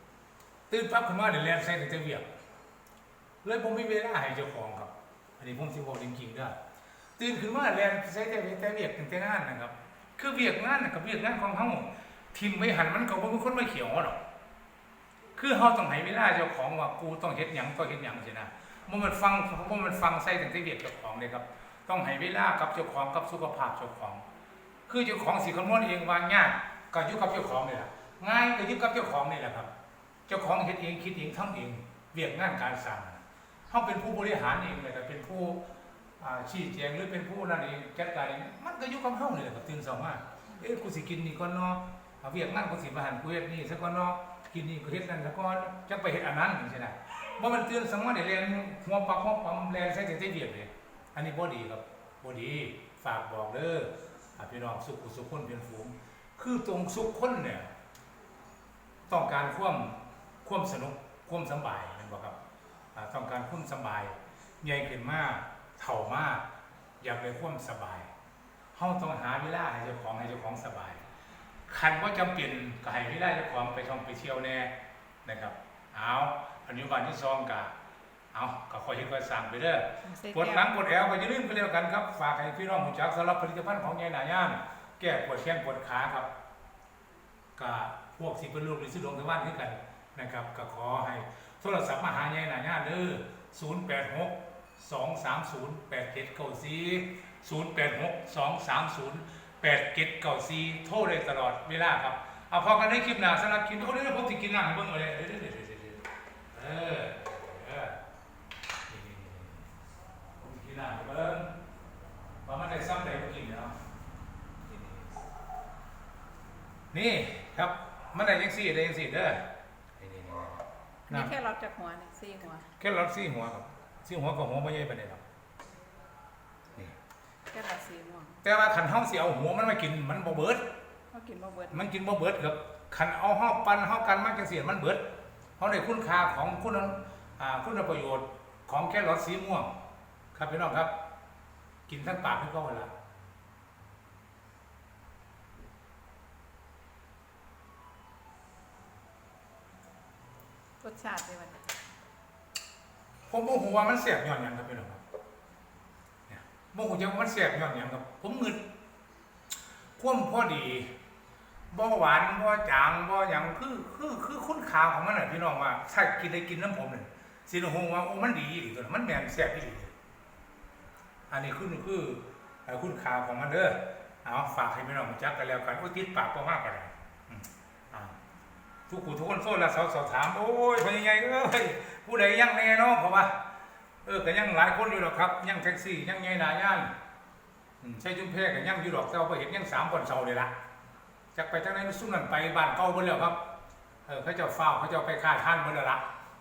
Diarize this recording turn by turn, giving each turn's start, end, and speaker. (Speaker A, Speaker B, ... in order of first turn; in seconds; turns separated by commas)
Speaker A: 0.7-2.3, Speaker A: 3.4-6.6, Speaker A: 7.2-14.2, Speaker A: 15.4-24.2, Speaker A: 24.9-29.7, Speaker A: 30.3-35.6, Speaker A: 36.2-57.7, Speaker A: 59.1-62.4, Speaker A: 62.9-66.5, Speaker A: 67.0-68.1, Speaker A: 68.7-71.0, Speaker A: 71.7-74.7, Speaker A: 75.2-77.7, Speaker A: 78.3-86.3, Speaker B: 80.0-80.7, Speaker A: 87.6-108.0, Speaker A: 108.9-109.7, Speaker A: 110.4-111.5, Speaker A: 112.5-113.8, Speaker A: 114.7-115.3, Speaker A: 116.9-121.3, Speaker B: 121.1-122.7, Speaker A: 122.8-125.2, Speaker B: 127.5-128.4, Speaker A: 128.4-130.7, Speaker B: 131.1-131.8, Speaker A: 131.7-139.7, Speaker A: 140.3-140.9, Speaker A: 141.9-142.9, Speaker B: 150.8-151.7, Speaker A: 153.3-155.0, Speaker A: 156.3-158.6, Speaker A: 160.0-160.9, Speaker A: 161.7-169.9, Speaker A: 171.3-178.2, Speaker A: 178.9-183.4, Speaker A: 184.1-186.9, Speaker A: 187.8-190.5, Speaker A: 191.3-193.4, Speaker A: 194.1-196.0